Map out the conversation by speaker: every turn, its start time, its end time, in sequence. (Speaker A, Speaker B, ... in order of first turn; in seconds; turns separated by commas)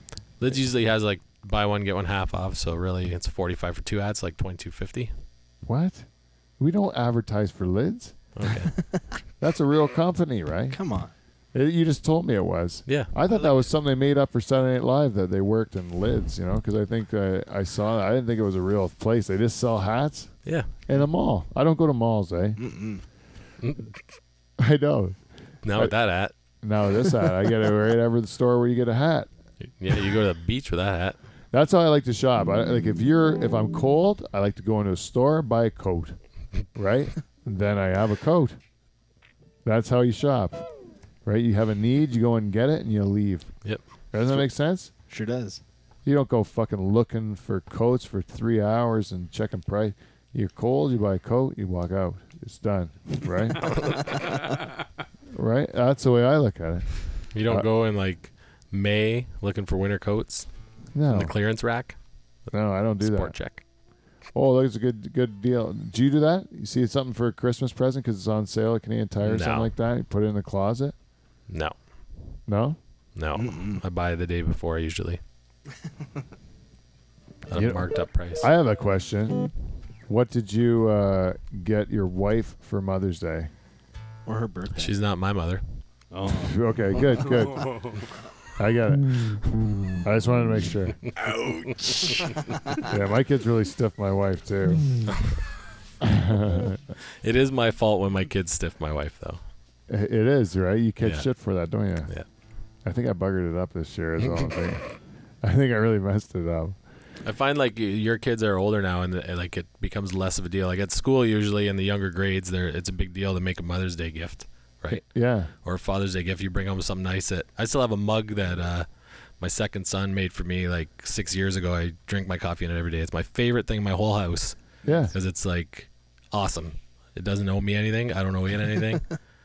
Speaker A: 0.4-5.1, Speaker B: 5.7-6.1, Speaker B: 6.6-8.2, Speaker A: 8.3-8.7, Speaker C: 8.7-9.2, Speaker B: 9.4-10.8, Speaker C: 10.7-11.1, Speaker B: 11.5-20.3, Speaker C: 13.3-13.6, Speaker A: 20.4-20.7, Speaker B: 20.9-22.6, Speaker C: 22.6-23.1, Speaker A: 23.6-24.0, Speaker B: 24.6-25.2, Speaker A: 25.6-26.3, Speaker B: 26.6-29.3, Speaker A: 29.8-31.2, Speaker B: 31.5-36.2, Speaker B: 36.8-38.6, Speaker B: 39.6-40.7, Speaker B: 41.2-43.5, Speaker B: 44.1-44.9, Speaker C: 45.1-45.6, Speaker B: 46.0-54.0, Speaker B: 55.3-56.9, Speaker A: 57.3-60.5, Speaker B: 60.9-61.3, Speaker A: 61.1-62.0, Speaker B: 62.5-63.4, Speaker A: 63.0-63.6, Speaker B: 64.3-71.0, Speaker A: 69.2-69.7, Speaker A: 71.5-71.8, Speaker B: 72.5-72.8, Speaker A: 73.2-75.2, Speaker C: 73.3-73.8, Speaker A: 77.5-78.5, Speaker B: 77.5-79.5, Speaker B: 80.1-83.5, Speaker C: 84.3-84.9, Speaker A: 84.7-85.6, Speaker C: 86.1-86.6, Speaker B: 86.3-88.0, Speaker B: 88.6-89.5, Speaker B: 90.0-91.0, Speaker A: 91.3-92.4, Speaker B: 92.8-95.0, Speaker A: 95.1-95.4, Speaker B: 96.0-96.8, Speaker A: 97.2-99.4, Speaker B: 99.9-102.1, Speaker A: 101.0-101.3, Speaker B: 102.8-104.8, Speaker B: 105.4-106.8, Speaker A: 107.2-115.0, Speaker B: 114.9-115.5, Speaker A: 115.6-118.9, Speaker A: 119.4-124.6, Speaker B: 124.8-125.1, Speaker A: 125.1-129.0